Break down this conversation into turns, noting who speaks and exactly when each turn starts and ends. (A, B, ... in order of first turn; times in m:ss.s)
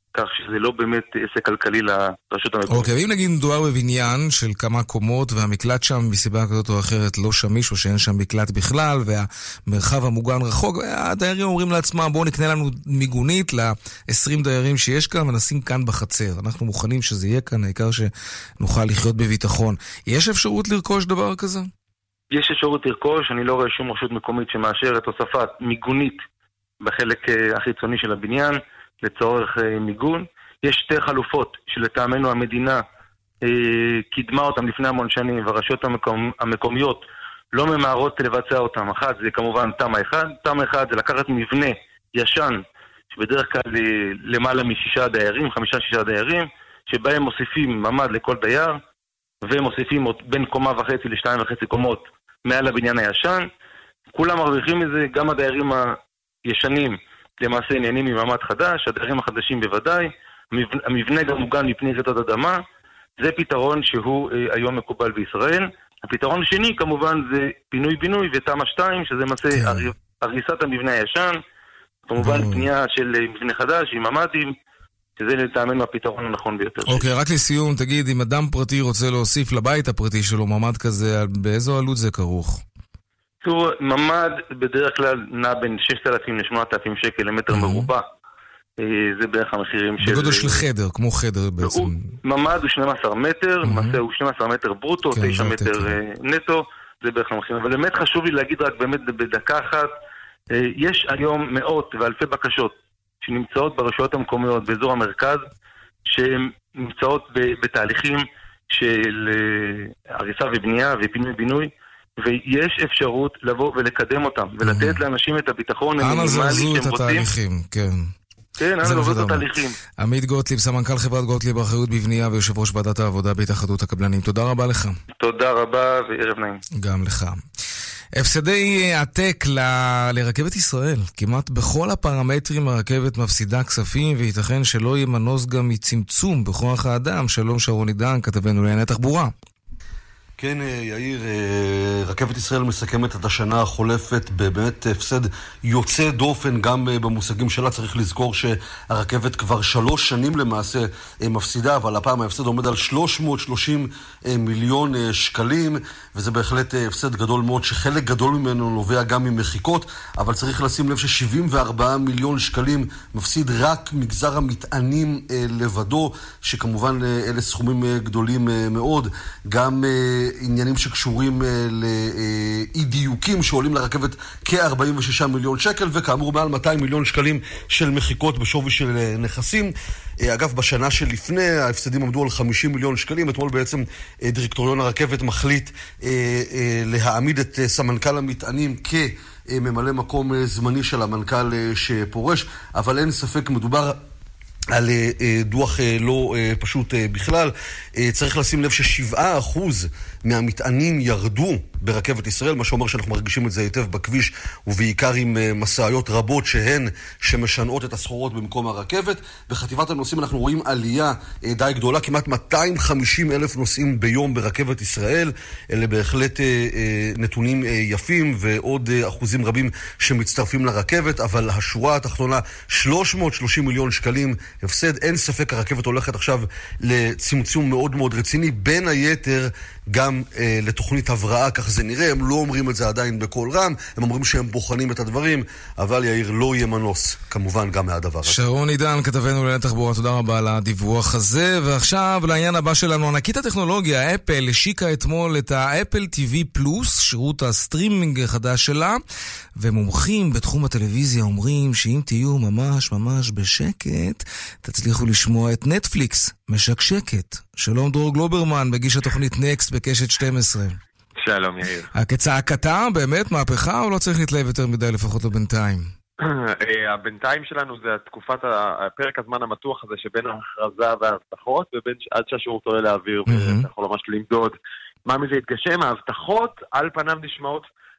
0:00.1-0:02.9 A
0:02.7-0:21.7 B
0:22.3-0:26.2 A
0:26.8-0:32.8 A
0:33.4-0:37.0 A
0:37.5-0:42.6 A
0:43.1-0:48.8 A
0:49.4-0:53.4 A
0:54.1-0:55.9 A
0:56.5-1:02.6 A
1:03.2-1:11.4 A
1:09.5-1:09.9 B
1:12.1-1:14.5 A
1:12.2-1:12.7 B
1:15.2-1:17.1 A
1:16.9-1:22.6 B
1:23.4-1:28.0 A
1:27.5-1:27.9 B
1:28.8-1:30.6 A
1:30.0-1:32.1 B
1:31.6-1:39.9 A
1:33.6-1:34.0 B
1:35.1-1:36.0 B
1:40.5-1:45.4 A
1:46.1-1:51.7 A
1:52.2-1:57.3 A
1:54.6-1:55.0 B
1:56.0-1:58.1 B
1:58.6-1:59.7 A
1:58.8-1:59.5 B
2:00.0-2:05.0 B
2:05.2-2:06.6 A
2:06.8-2:07.4 B
2:08.1-2:19.3 B
2:20.4-3:14.0 C
3:14.7-3:58.4 C
3:58.3-4:09.0 B
4:09.6-4:20.8 B
4:21.2-4:21.9 D
4:21.9-4:25.9 B
4:26.2-4:34.6 D
4:33.3-4:33.7 B
4:35.1-4:37.7 D